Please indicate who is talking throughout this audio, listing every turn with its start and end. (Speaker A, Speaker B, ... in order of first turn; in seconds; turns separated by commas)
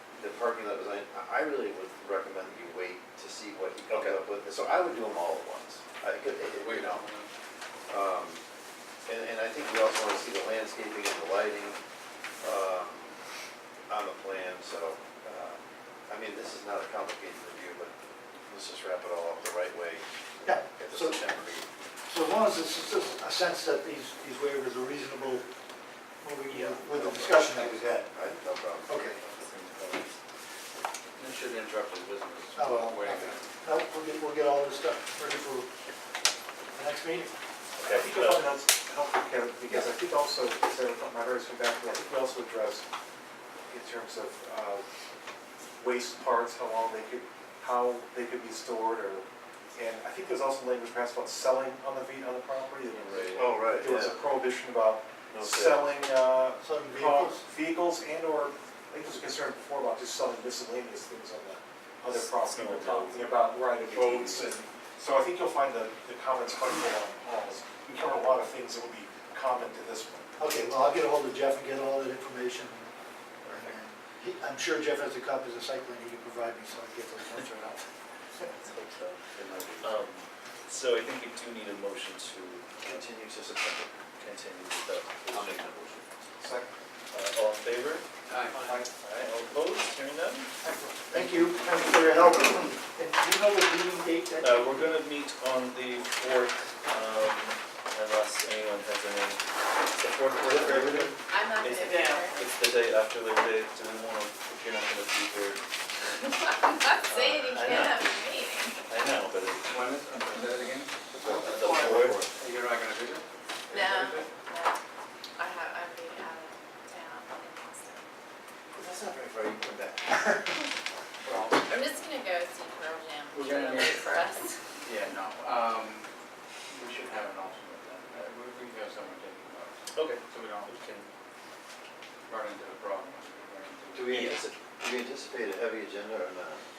Speaker A: 0.1-7.0, Speaker B: 3.9-4.2, Speaker C: 6.5-7.3, Speaker A: 7.9-8.4, Speaker A: 9.1-11.8, Speaker A: 12.4-13.2, Speaker A: 13.9-17.9, Speaker A: 18.4-21.7, Speaker D: 20.4-21.2, Speaker D: 22.1-25.4, Speaker D: 26.2-28.1, Speaker B: 26.5-27.5, Speaker A: 27.6-29.0, Speaker D: 28.9-29.2, Speaker B: 28.9-30.2, Speaker C: 31.2-33.4, Speaker D: 32.5-35.7, Speaker D: 36.7-37.3, Speaker B: 37.8-38.5, Speaker E: 37.8-42.8, Speaker D: 39.7-40.0, Speaker E: 43.7-44.8, Speaker E: 45.8-70.3, Speaker B: 52.9-53.5, Speaker A: 53.3-54.1, Speaker B: 55.3-55.9, Speaker D: 56.6-57.4, Speaker B: 62.1-64.5, Speaker D: 70.4-72.9, Speaker B: 73.4-73.7, Speaker D: 73.5-77.8, Speaker B: 78.5-83.0, Speaker A: 79.4-79.8, Speaker A: 82.8-83.9, Speaker B: 84.2-85.7, Speaker A: 85.3-86.1, Speaker E: 86.4-86.7, Speaker B: 87.1-88.0, Speaker C: 88.3-88.5, Speaker E: 88.5-88.9, Speaker B: 88.6-90.5, Speaker D: 90.6-95.0, Speaker B: 94.4-99.4, Speaker B: 99.9-105.6, Speaker A: 100.5-101.1, Speaker F: 101.3-102.5, Speaker C: 101.9-102.2, Speaker F: 106.5-108.8, Speaker B: 107.0-108.1, Speaker B: 108.9-109.8, Speaker C: 109.7-110.9, Speaker A: 111.1-112.3, Speaker B: 111.4-112.2, Speaker C: 112.3-114.3, Speaker F: 113.7-114.8, Speaker F: 115.4-118.0, Speaker A: 118.8-120.2, Speaker C: 121.2-121.7, Speaker F: 121.6-124.6, Speaker C: 123.3-124.0, Speaker C: 124.8-126.0, Speaker C: 126.7-129.7, Speaker B: 129.9-131.1, Speaker C: 130.3-130.7, Speaker C: 132.3-134.1, Speaker A: 133.9-136.6, Speaker B: 134.1-134.5